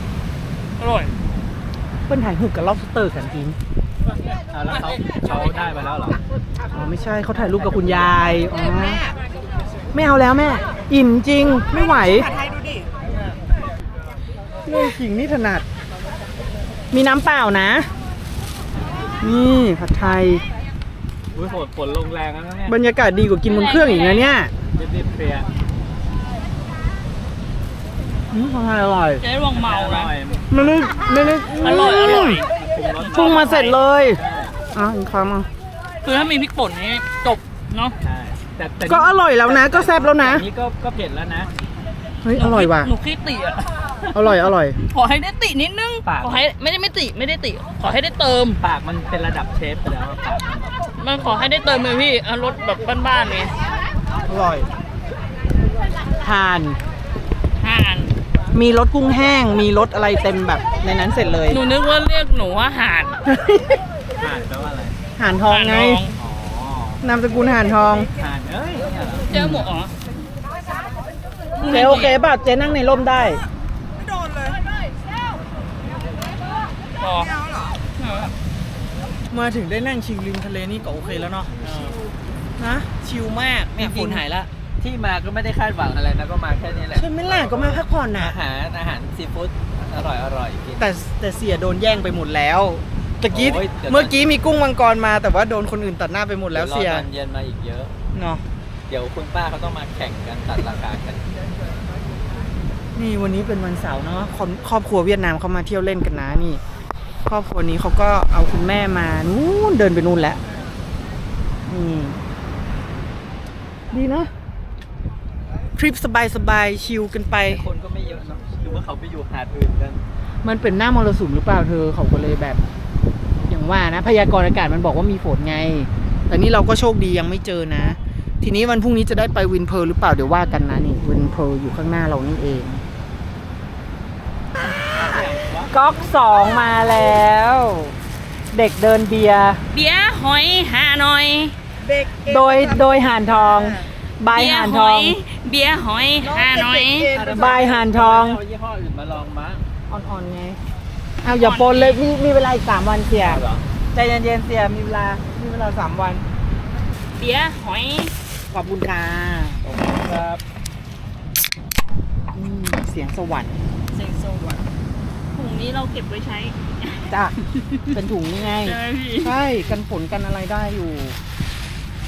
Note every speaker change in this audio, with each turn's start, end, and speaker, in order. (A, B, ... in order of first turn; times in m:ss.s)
0:00.8-0:01.1 A
0:02.1-0:03.6 B
0:04.5-0:06.2 C
0:06.7-0:09.0 B
0:07.5-0:08.5 C
0:08.5-0:09.2 D
0:09.9-0:12.3 B
0:11.6-0:12.9 D
0:14.6-0:15.6 B
0:16.9-0:17.9 B
0:19.2-0:20.4 B
0:21.3-0:22.7 C
0:22.7-0:24.5 B
0:23.4-0:24.3 A
0:24.7-0:25.5 C
0:28.3-0:29.2 B
0:29.2-0:30.1 A
0:29.5-0:30.6 C
0:30.5-0:32.4 B
0:31.6-0:32.5 A
0:32.5-0:34.5 C
0:33.0-0:33.7 A
0:33.1-0:34.2 B
0:34.7-0:35.5 B
0:36.0-0:38.0 A
0:38.0-0:41.5 C
0:38.8-0:40.4 B
0:42.2-0:42.9 B
0:42.4-0:48.6 A
0:44.1-0:44.8 B
0:46.0-0:46.4 C
0:48.6-0:50.7 C
0:51.0-0:53.5 A
0:54.3-0:54.7 B
0:56.2-0:56.8 B
0:57.6-0:58.1 A
0:58.5-1:01.6 B
1:01.5-1:03.2 A
1:03.2-1:03.8 B
1:04.2-1:05.0 C
1:05.2-1:06.0 B
1:05.5-1:06.2 A
1:06.2-1:07.0 C
1:07.0-1:08.1 B
1:08.2-1:09.3 C
1:09.3-1:09.9 A
1:09.3-1:09.7 B
1:11.6-1:12.2 A
1:11.7-1:13.4 B
1:13.1-1:14.6 D
1:17.0-1:17.3 A
1:17.1-1:17.8 D
1:18.0-1:18.3 A
1:19.3-1:21.5 B
1:21.6-1:22.0 C
1:21.7-1:22.0 D
1:22.6-1:24.5 B
1:23.8-1:24.2 C
1:24.8-1:30.9 C
1:26.9-1:28.4 B
1:30.8-1:37.1 B
1:33.3-1:34.2 C
1:36.5-1:37.9 C
1:38.1-1:38.4 B
1:38.9-1:41.2 C
1:43.0-1:46.6 B
1:47.2-1:50.4 B
1:51.7-1:52.2 B
1:53.9-1:54.3 B
1:55.8-1:57.6 B
1:57.4-2:00.0 C
2:00.4-2:02.6 B
2:03.4-2:12.8 B
2:14.6-2:15.7 C
2:15.7-2:17.9 B
2:18.5-2:19.6 B
2:19.7-2:21.6 A
2:21.8-2:23.9 D
2:22.2-2:25.2 B
2:24.3-2:27.1 A
2:26.2-2:27.6 D
2:27.1-2:28.4 B
2:27.1-2:29.6 C
2:29.9-2:30.6 B
2:31.2-2:33.4 B
2:31.2-2:32.0 A
2:33.2-2:33.6 C
2:33.9-2:36.2 B
2:37.1-2:38.1 A
2:38.5-2:39.6 B
2:39.6-2:40.4 C
2:42.3-2:43.6 B
2:43.9-2:44.6 A
2:45.3-2:49.4 A
2:47.1-2:47.4 B
2:47.9-2:51.2 B